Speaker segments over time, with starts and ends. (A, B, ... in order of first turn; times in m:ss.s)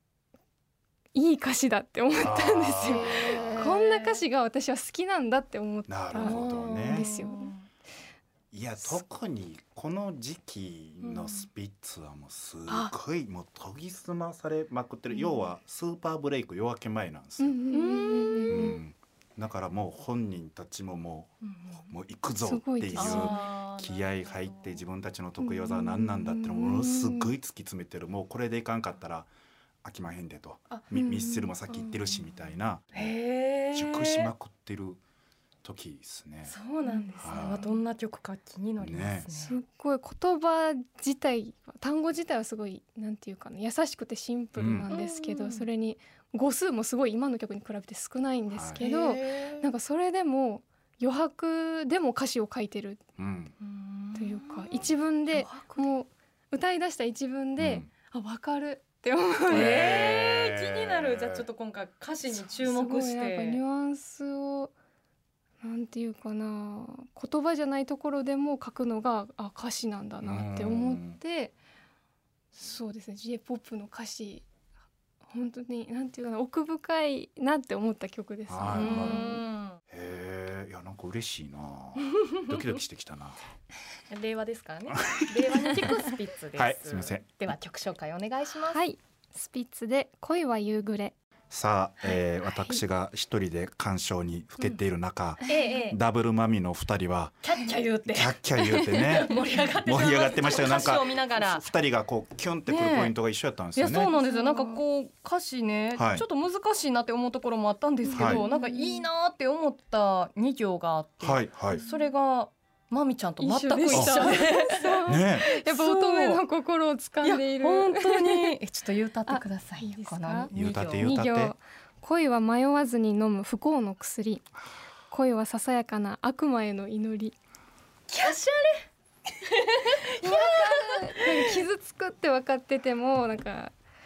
0:01.1-0:07.5 A
0:02.2-0:03.5 B
0:02.8-0:04.2 C
0:05.9-0:07.1 B
0:06.2-0:07.6 C
0:08.5-0:17.6 B
0:11.0-0:11.5 C
0:12.7-0:12.9 A
0:17.4-0:18.8 A
0:17.7-0:18.8 C
0:18.5-0:21.3 B
0:21.4-0:21.9 C
0:21.9-0:29.3 B
0:22.4-0:23.4 A
0:22.9-0:24.8 C
0:25.4-0:27.3 A
0:29.8-0:33.1 B
0:30.9-0:31.6 A
0:31.7-0:34.3 C
0:33.7-0:35.0 B
0:35.6-0:36.5 B
0:36.4-0:39.6 C
0:36.8-0:37.8 A
0:37.2-0:37.6 B
0:38.8-0:39.3 B
0:39.3-0:53.0 A
0:44.6-0:44.9 B
0:44.9-0:45.7 C
0:48.5-0:48.9 B
0:48.8-0:49.7 C
0:53.2-0:53.5 B
0:53.6-0:55.8 C
0:54.1-0:59.8 A
0:57.6-0:57.9 B
0:59.5-1:03.6 C
0:59.5-1:01.4 B
1:02.3-1:04.7 A
1:05.6-1:11.5 A
1:10.2-1:11.2 B
1:12.5-1:14.5 A
1:15.2-1:19.4 A
1:18.5-1:19.3 B
1:18.7-1:19.8 C
1:19.9-1:23.4 B
1:24.1-1:28.8 C
1:25.1-1:25.5 B
1:25.6-1:25.9 A
1:26.6-1:27.3 B
1:28.7-1:31.2 A
1:31.5-1:37.4 B
1:32.5-1:32.8 A
1:35.5-1:36.0 C
1:37.4-1:41.7 C
1:38.0-1:44.1 B
1:42.7-1:43.1 C
1:43.8-1:54.9 C
1:44.0-1:44.8 A
1:45.9-1:46.2 B
1:48.0-1:49.0 A
1:48.1-1:48.5 B
1:51.2-1:51.8 B
1:51.7-1:52.1 A
1:53.4-1:58.5 A
1:53.9-1:54.4 B
1:55.0-1:55.5 B
1:55.4-1:56.4 C
1:57.2-2:01.2 C
1:59.2-2:04.5 A
2:00.5-2:01.5 B
2:05.1-2:07.3 A
2:08.1-2:08.8 C
2:09.4-2:11.5 C
2:10.2-2:13.7 A